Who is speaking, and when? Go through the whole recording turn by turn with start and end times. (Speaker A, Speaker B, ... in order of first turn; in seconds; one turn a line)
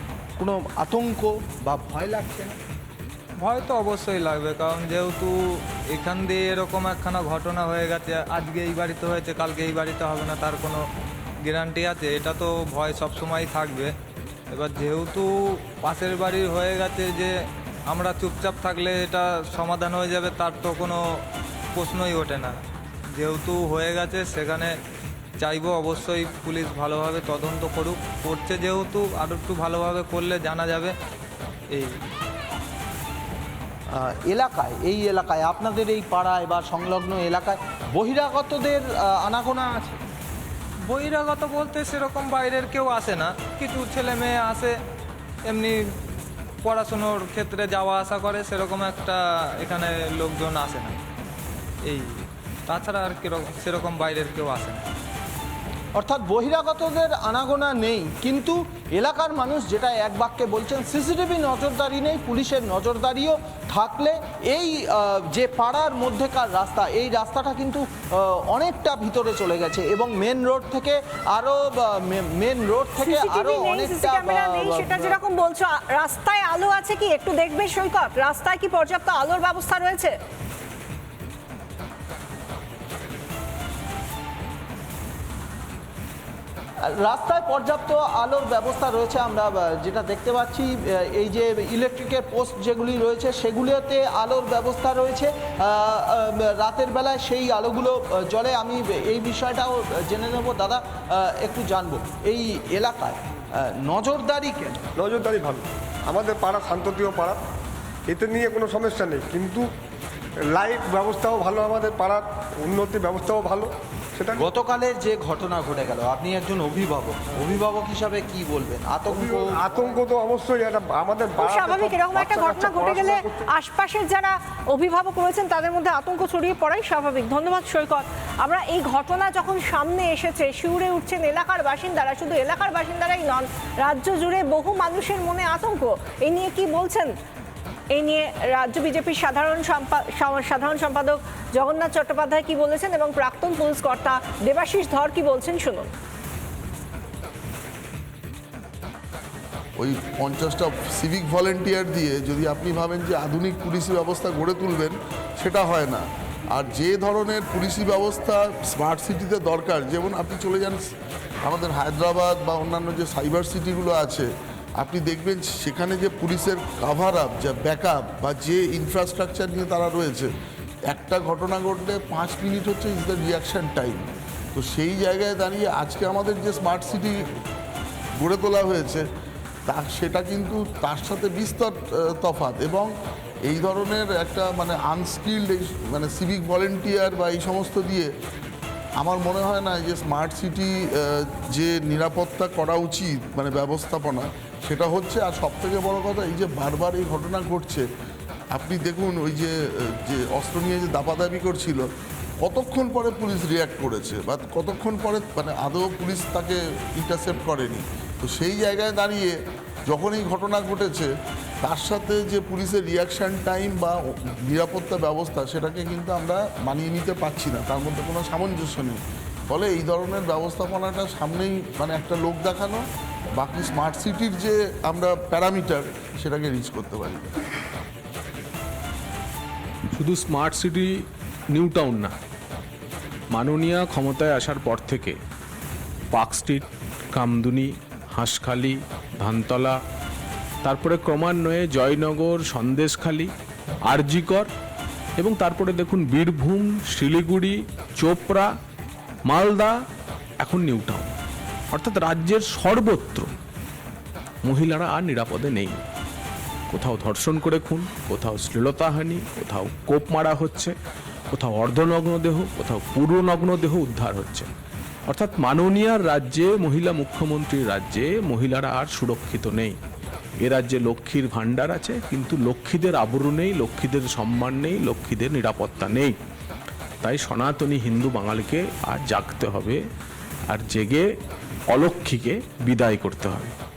Speaker A: 0.4-2.6
Speaker B: 3.4-10.8
Speaker B: 11.4-13.9
Speaker B: 14.5-17.3
Speaker B: 17.9-21.2
Speaker B: 21.7-22.6
Speaker B: 23.1-24.7
Speaker B: 25.4-30.9
Speaker B: 31.7-32.0
Speaker A: 33.9-40.0
Speaker B: 40.9-44.8
Speaker B: 45.5-45.8
Speaker B: 46.6-51.0
Speaker B: 51.9-54.9
Speaker A: 55.9-75.2
Speaker C: 73.0-80.1
Speaker A: 86.8-104.8
Speaker D: 105.0-107.4
Speaker D: 108.1-109.7
Speaker D: 110.5-114.4
Speaker A: 114.3-119.7
Speaker D: 119.1-123.3
Speaker C: 121.4-137.1
Speaker C: 137.9-145.9
Speaker E: 149.8-160.8
Speaker E: 161.4-164.3
Speaker E: 164.8-170.3
Speaker E: 170.9-177.3
Speaker E: 178.2-179.0
Speaker E: 179.7-182.9
Speaker E: 183.5-188.1
Speaker E: 189.0-197.8
Speaker E: 198.5-201.8
Speaker E: 202.4-211.1
Speaker E: 211.6-222.8
Speaker E: 223.4-227.4
Speaker F: 229.9-230.9
Speaker F: 231.5-232.1
Speaker F: 233.3-235.2
Speaker F: 236.1-239.7
Speaker F: 240.6-243.3
Speaker F: 243.9-244.5
Speaker F: 245.2-248.5
Speaker F: 249.3-249.7
Speaker F: 250.4-251.1
Speaker F: 251.7-253.3
Speaker F: 254.4-255.8
Speaker F: 256.7-260.7
Speaker F: 261.3-264.5
Speaker F: 265.1-269.8
Speaker F: 270.4-276.1
Speaker F: 277.0-279.8
Speaker F: 280.5-281.0
Speaker F: 281.7-283.5